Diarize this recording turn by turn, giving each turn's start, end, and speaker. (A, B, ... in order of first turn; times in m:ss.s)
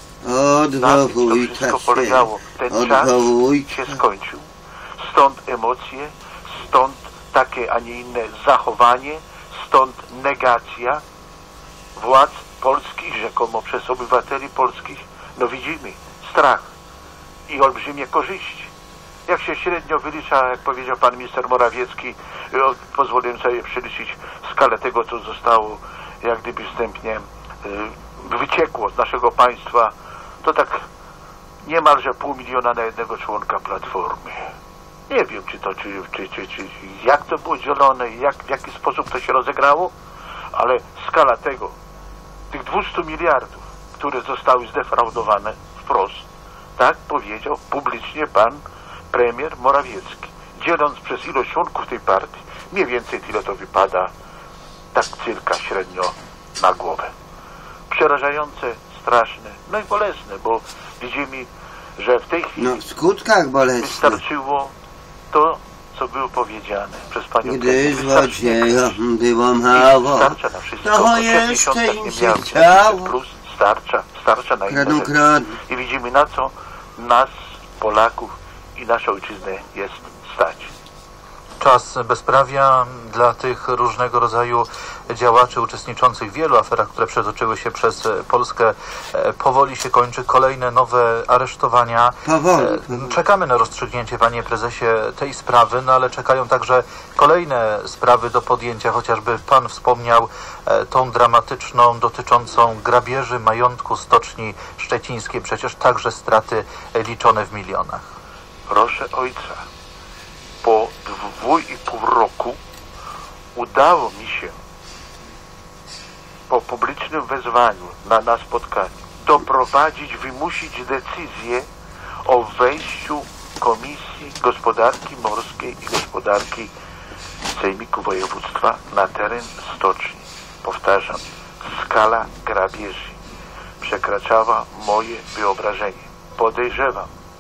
0:00.2-0:04.0 A
0:00.8-0:04.4 B
0:05.0-0:11.0 B
0:12.0-0:16.7 B
0:17.5-0:18.7 B
0:19.3-0:30.8 B
0:31.6-0:34.4 B
0:35.1-0:39.9 B
0:40.6-0:41.7 B
0:42.5-0:46.2 B
0:46.8-0:48.6 B
0:49.1-0:54.1 B
0:54.9-0:57.1 B
0:57.9-1:02.8 B
1:02.6-1:04.2 A
1:03.8-1:04.7 B
1:05.3-1:09.0 B
1:07.4-1:13.2 A
1:09.7-1:20.7 B
1:14.7-1:15.6 A
1:21.6-1:48.1 C
1:32.2-1:33.2 A
1:48.7-1:49.6 B
1:50.6-1:52.6 B
1:53.6-1:54.6 B
1:56.5-2:01.7 B
2:02.3-2:06.7 B
2:07.5-2:13.2 B
2:13.8-2:17.1 B